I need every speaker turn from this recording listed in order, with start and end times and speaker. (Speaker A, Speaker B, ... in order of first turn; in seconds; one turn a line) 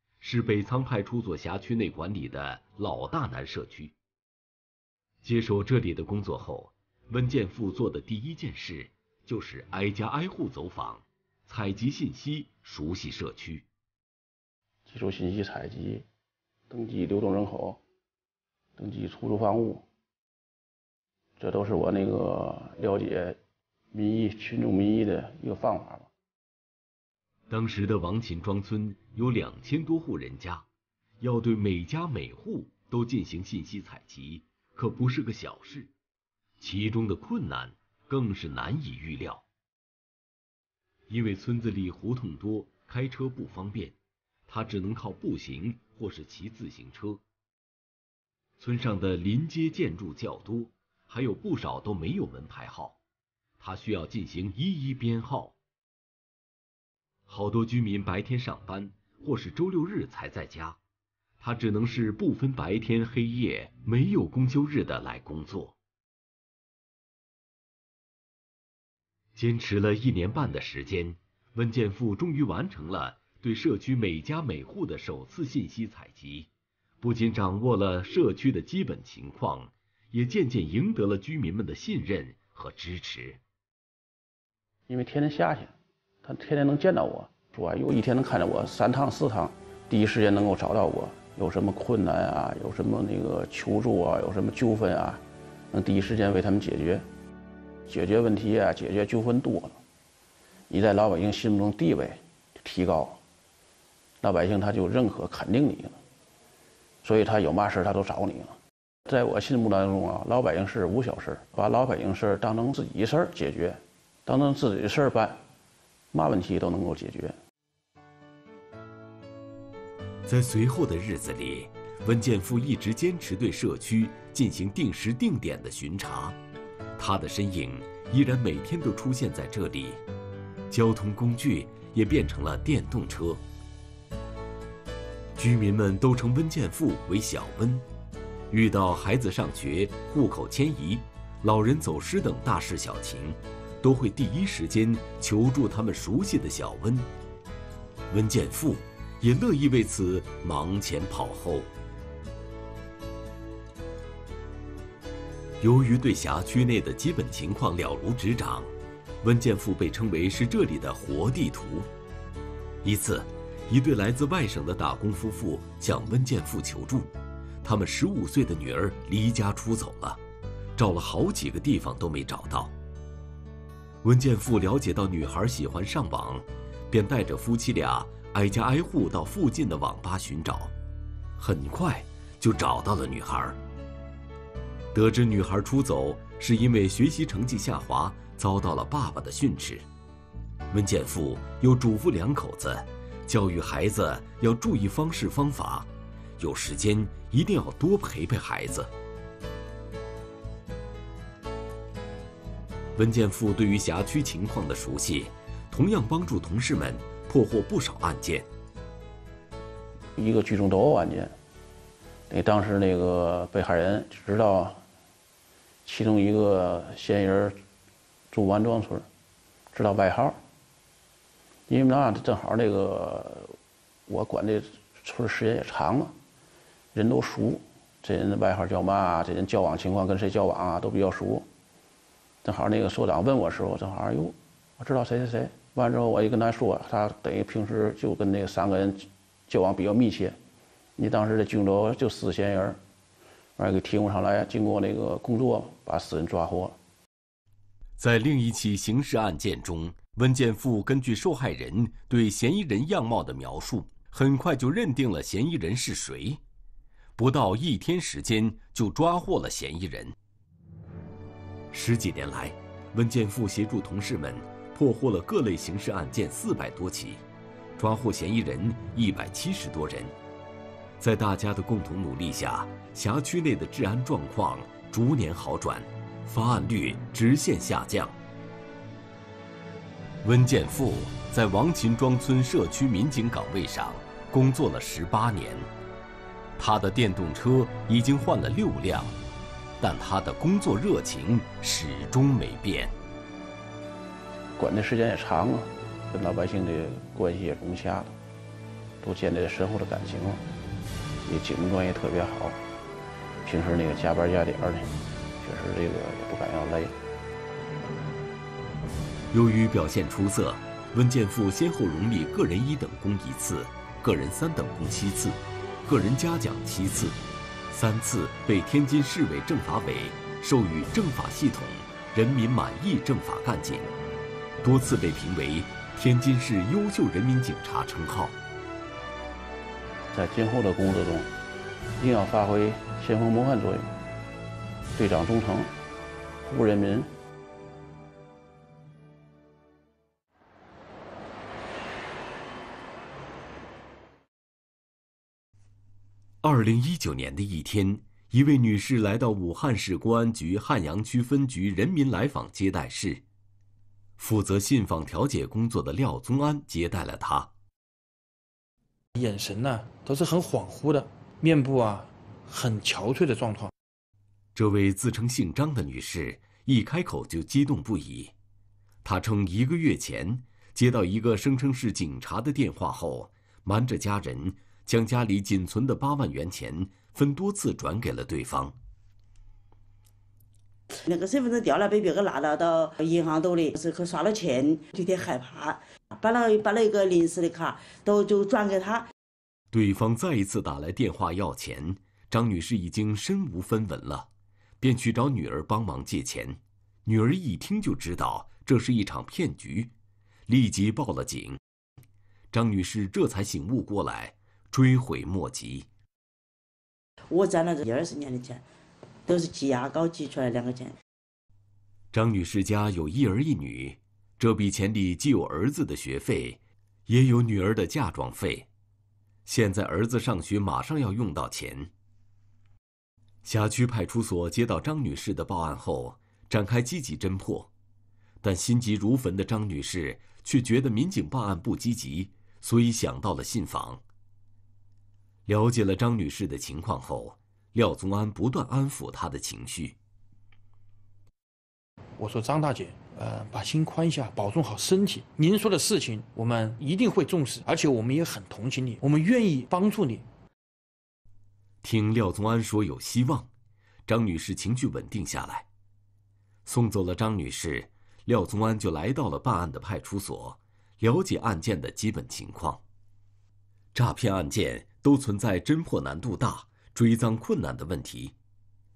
Speaker A: 0.2-3.9
Speaker A: 5.2-13.7
Speaker B: 14.9-16.1
Speaker B: 16.7-17.8
Speaker B: 18.8-19.9
Speaker B: 21.4-23.4
Speaker B: 23.9-26.1
Speaker A: 27.5-30.7
Speaker A: 31.2-35.9
Speaker A: 36.6-39.4
Speaker A: 41.1-44.0
Speaker A: 44.5-47.2
Speaker A: 48.6-53.0
Speaker A: 53.6-55.5
Speaker A: 57.3-60.8
Speaker A: 61.4-65.8
Speaker A: 69.4-76.5
Speaker A: 77.0-83.4
Speaker B: 84.9-85.7
Speaker B: 86.2-95.2
Speaker B: 95.7-97.0
Speaker B: 97.9-99.8
Speaker B: 100.7-103.2
Speaker B: 104.2-106.0
Speaker B: 107.0-115.4
Speaker B: 116.1-117.4
Speaker A: 120.3-126.4
Speaker A: 127.0-130.0
Speaker A: 130.7-133.4
Speaker A: 135.4-137.8
Speaker A: 138.5-147.1
Speaker A: 148.1-151.7
Speaker A: 155.6-158.7
Speaker A: 159.2-161.9
Speaker A: 162.8-167.1
Speaker A: 167.6-170.2
Speaker A: 170.8-172.7
Speaker A: 174.0-180.7
Speaker A: 181.4-183.6
Speaker A: 184.9-189.8
Speaker A: 190.7-195.9
Speaker A: 196.4-198.9
Speaker A: 203.0-208.5
Speaker B: 210.2-211.3
Speaker B: 212.3-214.8
Speaker B: 215.8-217.6
Speaker B: 218.3-219.1
Speaker B: 219.7-220.4
Speaker B: 221.7-223.6
Speaker B: 224.1-226.2
Speaker B: 226.9-231.5
Speaker B: 232.4-240.4
Speaker B: 241.0-242.8
Speaker B: 243.6-246.8
Speaker A: 248.0-256.4
Speaker A: 257.2-260.1
Speaker A: 261.7-267.2
Speaker A: 267.8-270.1
Speaker A: 271.0-278.2
Speaker A: 280.2-285.7
Speaker A: 286.6-289.2
Speaker A: 289.8-292.9
Speaker B: 294.6-298.1
Speaker B: 299.0-300.4
Speaker B: 301.2-302.6
Speaker B: 303.4-306.9
Speaker A: 309.3-317.2
Speaker A: 317.7-323.9
Speaker A: 324.6-328.4
Speaker B: 330.1-331.3
Speaker B: 332.0-333.9
Speaker B: 334.9-335.7
Speaker B: 336.4-337.1
Speaker A: 346.4-353.2
Speaker A: 354.2-357.5
Speaker C: 359.1-363.7
Speaker A: 364.6-368.3
Speaker A: 369.0-378.8
Speaker D: 381.1-389.1
Speaker A: 389.7-394.3
Speaker A: 394.8-399.9
Speaker A: 400.5-401.6
Speaker A: 402.5-405.9
Speaker D: 407.3-408.6
Speaker D: 409.3-410.9
Speaker A: 412.1-418.7
Speaker A: 419.5-421.9
Speaker A: 423.4-427.7
Speaker A: 428.4-434.0
Speaker A: 435.5-439.9
Speaker C: 442.2-450.2
Speaker A: 451.8-453.5
Speaker A: 454.1-455.6
Speaker A: 456.7-462.8
Speaker A: 463.9-468.3